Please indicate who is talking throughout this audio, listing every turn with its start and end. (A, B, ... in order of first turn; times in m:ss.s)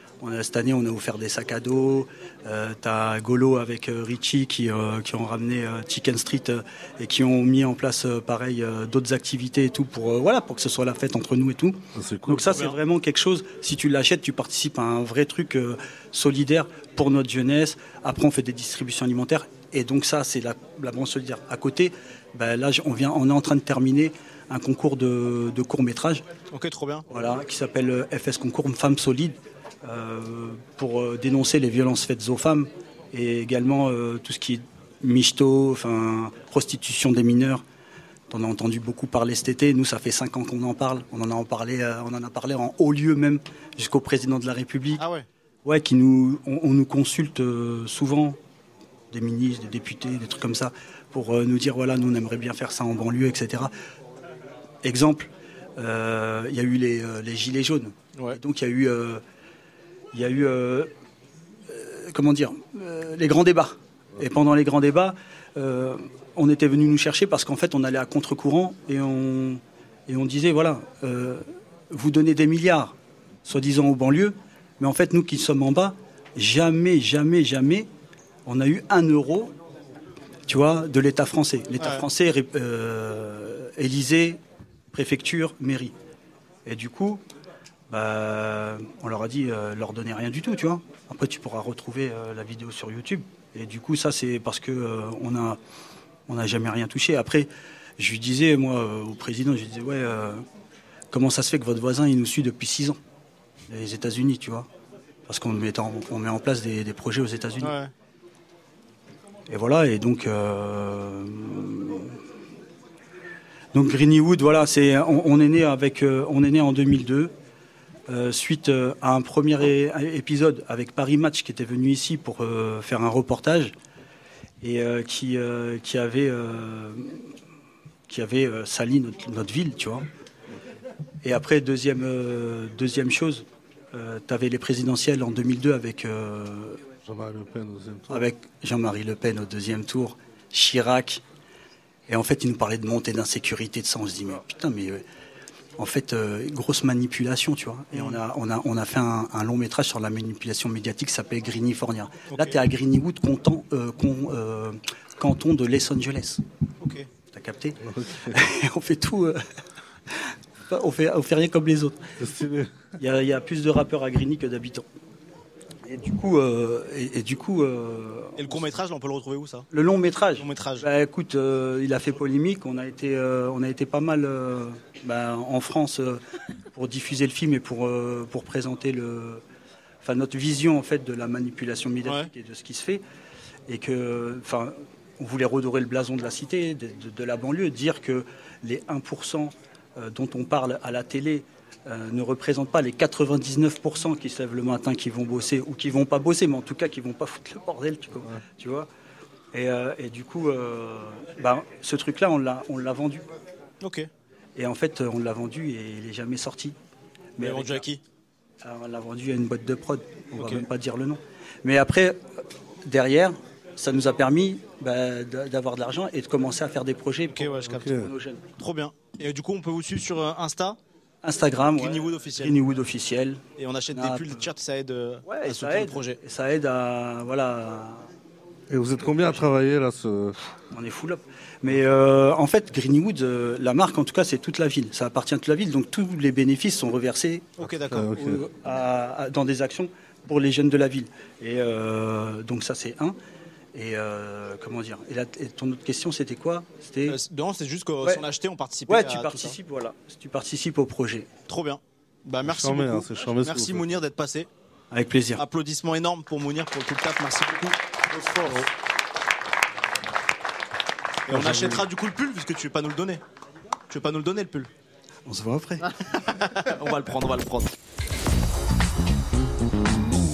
0:00.2-0:26.2 A
0:12.0-0:12.5 B
0:12.5-0:12.8 C
0:26.5-0:27.1 C
0:27.1-0:37.6 A
0:38.3-0:45.0 A
0:45.0-0:45.3 C
0:45.6-0:48.4 A
0:49.1-0:53.7 A
0:54.8-0:59.2 A
1:00.1-1:00.9 A
1:01.7-1:12.9 A
1:13.4-1:17.9 A
1:18.5-1:19.5 A
1:20.5-1:24.4 A
1:21.8-1:22.1 C
1:24.9-1:25.9 A
1:26.7-1:27.2 A
1:27.9-1:35.6 A
1:36.3-1:40.4 A
1:41.1-1:43.0 A
1:43.7-1:44.7 A
1:45.3-1:47.8 A
1:47.6-1:47.9 C
1:49.5-1:52.2 A
1:53.7-1:57.3 A
1:58.1-2:03.7 A
2:04.6-2:07.2 A
2:08.1-2:10.1 A
2:11.2-2:16.8 A
2:17.0-2:18.3 B
2:18.1-2:21.2 A
2:22.1-2:25.0 A
2:25.8-2:36.4 A
2:27.9-2:28.2 C
2:32.3-2:32.6 C
2:36.8-2:37.1 C
2:37.3-2:37.8 A
2:37.8-2:38.3 B
2:38.3-2:39.4 A
2:40.7-2:42.0 A
2:42.2-2:42.9 B
2:43.0-2:44.8 A
2:45.9-2:48.6 A
2:48.4-2:49.7 C
2:49.7-2:56.2 A
2:50.4-2:50.9 C
2:56.7-2:59.4 A
3:00.0-3:03.0 A
3:02.0-3:02.3 C
3:03.7-3:18.9 A
3:19.5-3:23.3 A
3:23.8-3:24.1 C
3:24.6-3:26.8 A
3:27.4-3:27.8 A
3:27.4-3:28.0 C
3:28.6-3:32.2 A
3:30.3-3:30.7 C
3:32.8-3:38.4 A
3:37.3-3:37.9 C
3:37.7-3:38.1 B
3:38.6-3:40.8 C
3:41.2-3:44.4 A
3:41.8-3:42.6 C
3:43.6-3:46.2 C
3:45.3-3:48.1 A
3:48.7-3:50.4 B
3:50.7-3:57.6 A
3:57.6-3:58.3 C
3:57.6-3:58.4 B
3:58.2-4:03.2 A
4:03.7-4:07.2 A
4:07.1-4:09.6 C
4:08.9-4:11.4 A
4:11.5-4:14.5 C
4:12.4-4:14.0 B
4:14.9-4:15.4 A
4:15.4-4:17.8 C
4:21.3-4:23.2 C
4:21.3-4:21.8 B
4:23.9-4:24.7 C
4:25.3-4:25.9 A
4:26.3-4:27.7 C